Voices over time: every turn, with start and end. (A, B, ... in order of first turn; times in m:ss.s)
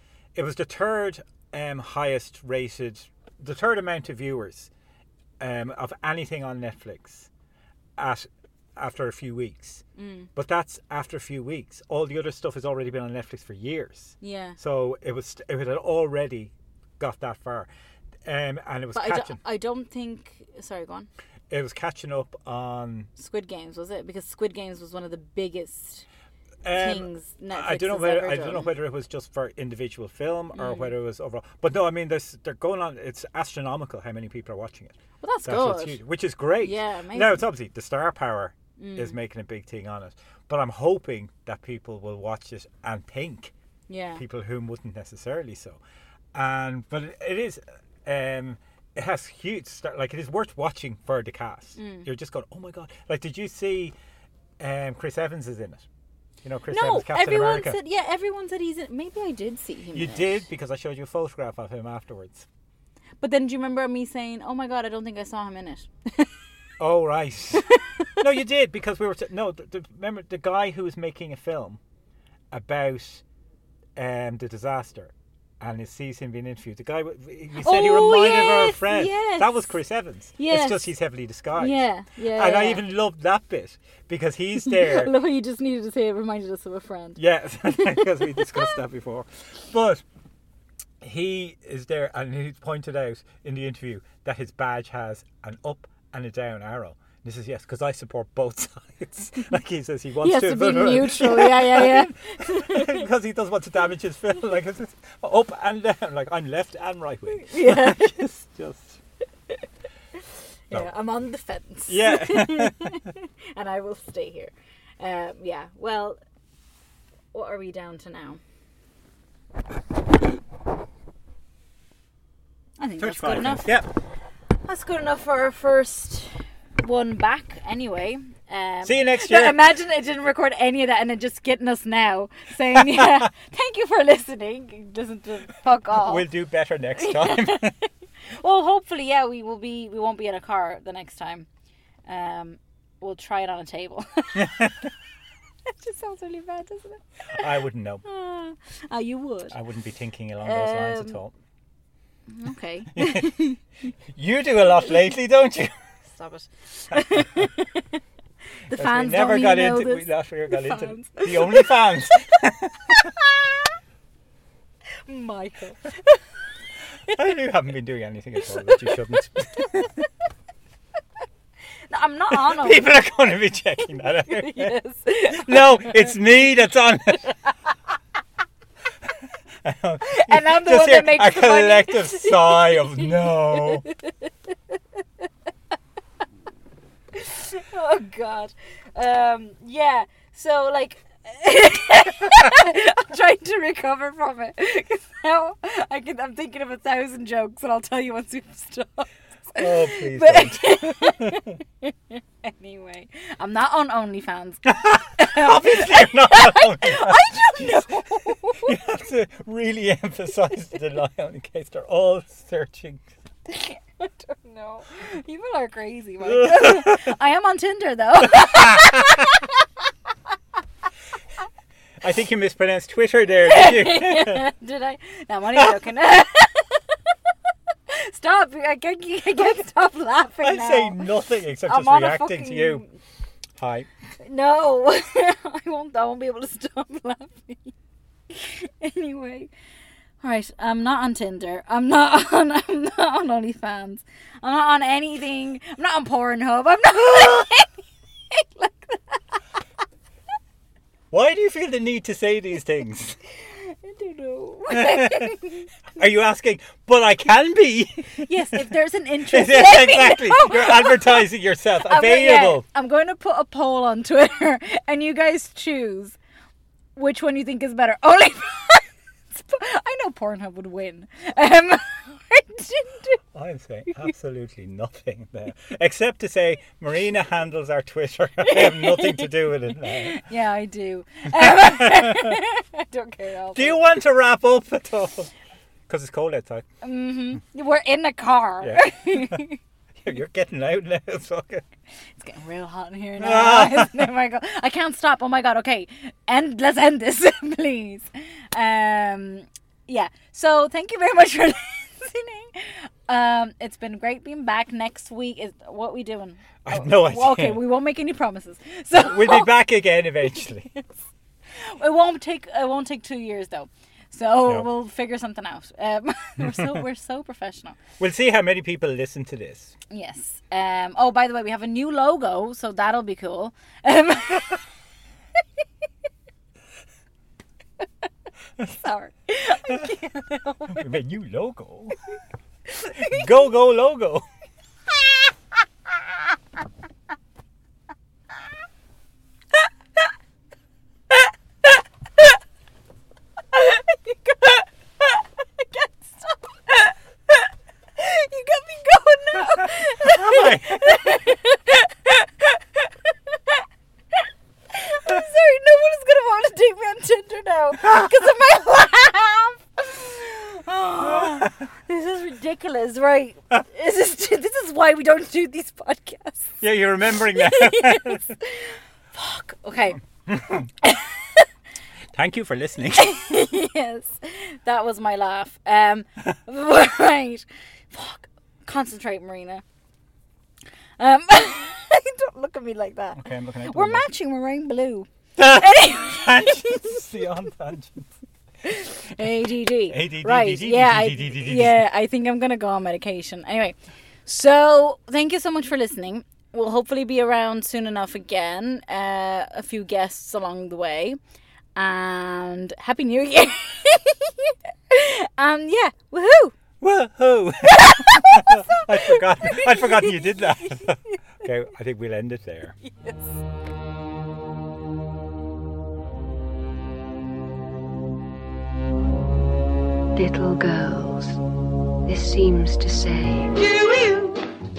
0:00.4-0:04.7 A
0:05.4-0:07.3 A
0:08.0-0:09.8 A
0:10.0-0:10.3 B
0:10.4-0:17.7 A
0:14.2-0:14.6 B
0:18.2-0:19.4 A
0:18.9-0:21.1 B
0:21.5-0:23.1 A
0:23.2-0:26.1 B
0:26.6-0:43.5 A
0:26.8-0:28.7 B
0:30.5-0:30.9 B
0:35.2-0:36.0 B
0:36.6-0:37.4 B
0:38.8-0:39.2 B
0:43.9-0:44.2 B
0:44.2-0:45.8 A
0:46.3-0:54.0 A
0:51.8-0:52.1 B
0:54.6-0:55.9 A
0:56.4-0:57.8 A
0:56.7-1:00.4 B
0:59.9-1:02.5 A
1:03.2-1:06.3 B
1:06.8-1:11.8 A
1:07.6-1:08.2 B
1:12.5-1:13.2 A
1:14.0-1:25.1 A
1:17.6-1:19.7 B
1:20.4-1:20.9 B
1:21.6-1:22.8 B
1:24.6-1:27.2 B
1:27.2-1:30.0 A
1:27.7-1:28.7 B
1:31.0-1:49.0 A
1:40.2-1:43.1 B
1:47.3-1:48.3 B
1:50.7-1:56.2 B
1:51.9-1:53.0 A
1:57.3-1:58.4 B
2:02.8-2:03.8 B
2:03.0-2:03.9 A
2:04.6-2:16.3 B
2:08.8-2:09.6 A
2:12.8-2:13.1 A
2:15.9-2:17.8 A
2:17.0-2:21.5 B
2:22.1-2:24.7 B
2:24.4-2:24.9 A
2:25.7-2:27.5 B
2:27.4-2:28.0 A
2:28.0-2:29.6 B
2:29.5-2:31.3 A
2:30.4-2:31.2 B
2:32.3-2:33.6 B
2:33.0-2:33.3 A
2:34.1-2:36.0 A
2:36.1-2:38.0 B
2:37.0-2:37.2 A
2:38.7-2:41.9 B
2:38.7-2:43.1 A
2:43.0-2:43.4 B
2:45.1-2:46.3 B
2:47.1-2:50.1 A
2:48.4-2:49.8 B
2:51.9-2:52.9 B
2:52.3-2:54.8 A
2:54.0-2:56.2 B
2:55.3-2:57.3 A
2:59.6-3:03.9 A
3:00.0-3:04.3 B
3:07.1-3:24.6 B
3:19.6-3:21.5 A
3:24.6-3:27.9 A
3:25.2-3:28.8 B
3:28.6-3:33.1 A
3:33.5-3:39.6 B
3:36.2-3:37.2 A
3:38.2-3:39.1 A
3:42.0-3:44.5 A
3:43.5-3:47.0 B
3:47.9-3:51.1 B
3:50.4-3:52.8 A
3:51.6-3:52.9 B
3:53.6-3:53.9 A
3:54.2-3:57.8 B
3:58.3-3:59.5 B
4:00.2-4:09.4 B
4:11.1-4:13.2 A
4:13.5-4:15.7 B
4:14.7-4:15.3 A
4:16.0-4:18.6 A
4:18.2-4:21.3 B
4:19.3-4:22.6 A
4:21.8-4:26.2 B
4:27.0-4:33.2 B
4:33.3-4:40.2 A
4:38.4-4:43.8 B
4:41.3-4:42.4 A
4:43.5-4:45.3 A
4:45.9-4:46.6 A
4:46.8-4:49.6 B
4:48.6-4:49.4 A
4:50.0-4:51.6 A
4:52.2-5:09.5 B
4:53.2-4:54.1 A
5:06.6-5:07.6 A
5:08.9-5:10.7 A
5:11.6-5:17.8 B
5:16.4-5:16.8 A
5:18.0-5:19.8 A
5:19.9-5:24.6 B
5:28.7-5:30.8 B
5:30.7-5:32.0 A
5:32.7-5:33.3 B
5:32.9-5:34.3 A
5:43.5-5:53.6 B
5:49.6-5:51.2 A
5:54.7-6:06.6 B
6:01.1-6:01.5 A
6:06.6-6:08.2 A
6:07.2-6:10.0 B
6:10.3-6:10.7 A
6:10.8-6:11.4 B
6:12.1-6:13.1 A
6:13.0-6:19.6 B
6:21.0-6:27.2 B
6:23.2-6:24.1 A
6:25.4-6:28.1 A
6:28.6-6:41.2 B
6:29.9-6:31.8 A
6:41.8-6:46.6 B
6:46.8-6:52.8 A
6:47.7-6:51.1 B
6:52.8-6:53.4 B
7:00.2-7:01.4 C
7:02.0-7:03.7 C